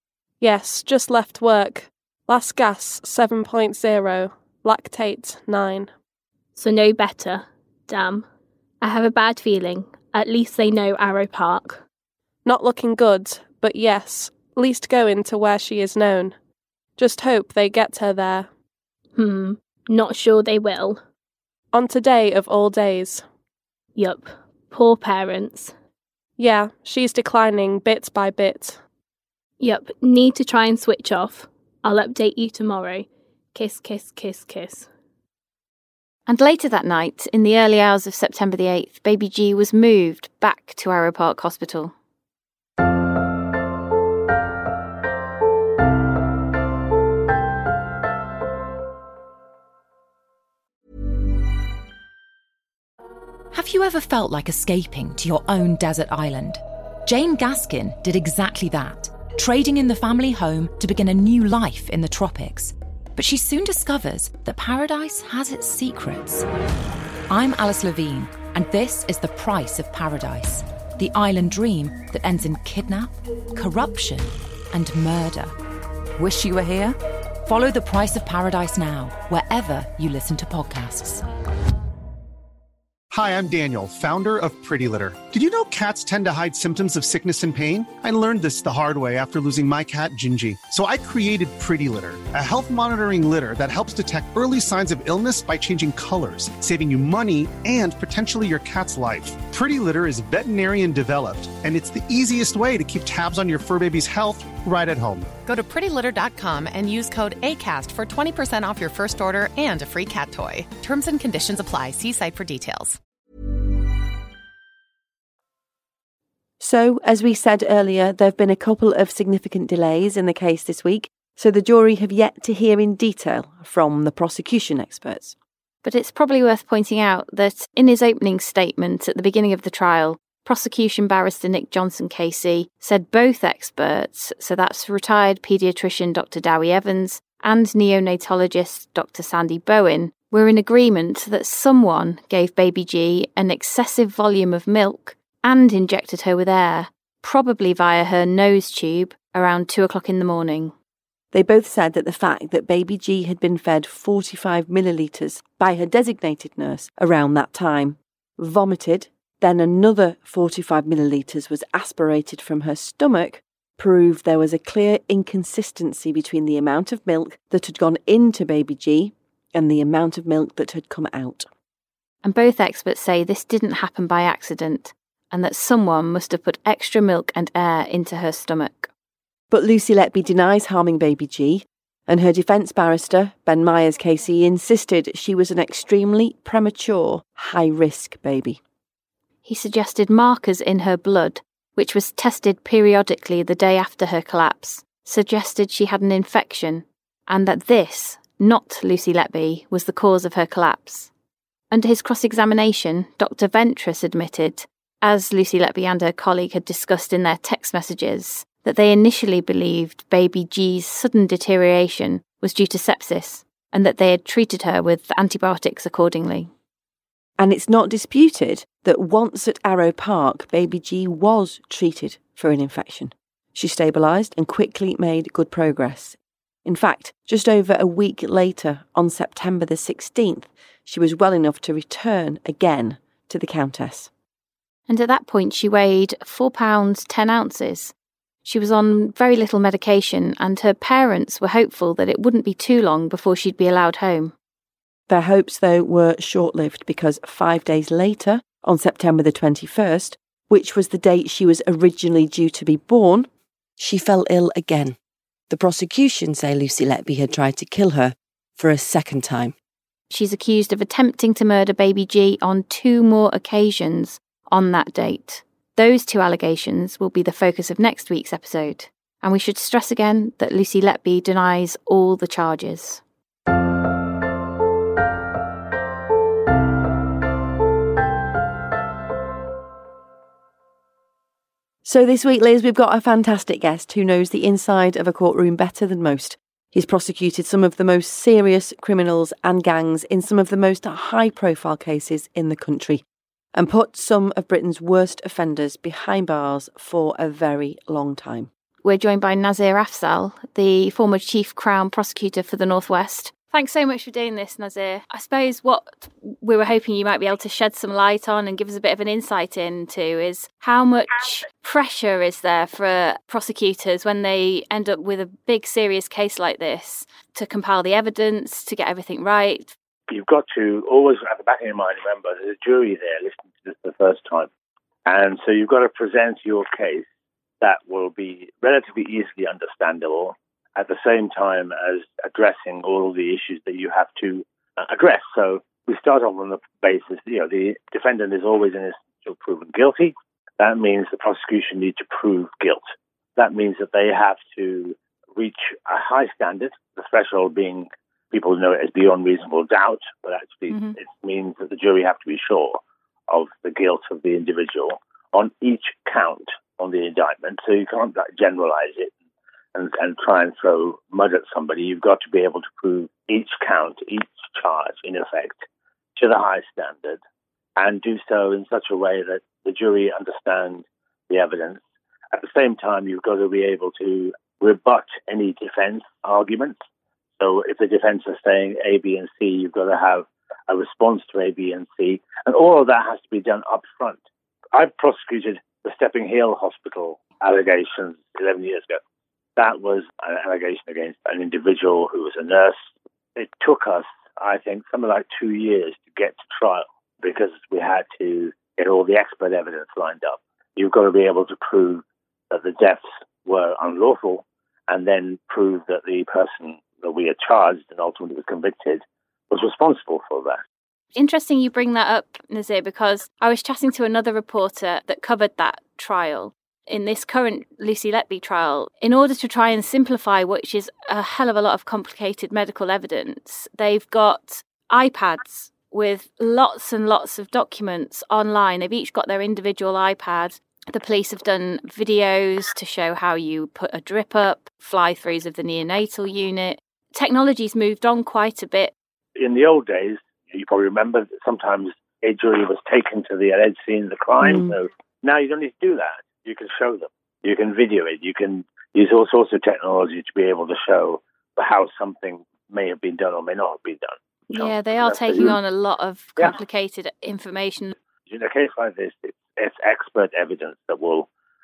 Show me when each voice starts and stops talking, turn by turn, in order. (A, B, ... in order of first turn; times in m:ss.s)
0:00.4-0:05.9 A
0:06.6-0:08.2 B
0:08.8-0:11.8 B
0:12.4-0:16.4 A
0:17.0-0:18.5 A
0:19.2-0:21.0 B
0:21.7-0:23.2 A
0:24.0-0:25.7 B
0:26.4-0:28.8 A
0:29.6-0:34.9 B
0:36.3-0:41.9 C
0:53.5-1:06.4 D
1:07.3-1:15.6 D
1:16.2-1:21.2 D
1:23.1-1:45.3 E
1:45.4-1:53.0 F
1:56.6-2:05.4 G
2:05.8-2:30.7 C
2:31.3-2:51.5 G
2:52.2-2:58.9 C
2:59.5-3:08.6 G
3:09.4-3:21.1 C
3:21.7-3:36.5 C
3:37.4-3:54.1 G
3:54.9-3:57.9 C
3:58.4-4:04.3 C
4:05.1-4:15.0 G
4:15.5-4:19.5 G
4:20.1-4:33.0 C
4:41.8-4:53.0 G
4:53.6-4:58.5 G
4:58.8-5:19.7 C
5:20.1-5:24.5 H
5:25.1-5:27.1 H
5:27.6-5:42.8 H
5:43.4-5:59.1 H
5:59.8-6:05.6 H
6:06.2-6:07.2 H
6:07.8-6:11.8 H
6:12.3-6:16.8 H
6:17.4-6:24.2 H
6:24.7-6:29.0 H
6:29.6-6:50.6 H
6:51.2-7:18.9 C
7:19.4-7:35.6 H
7:24.4-7:24.7 G
7:34.5-7:38.0 C
7:38.3-7:41.3 H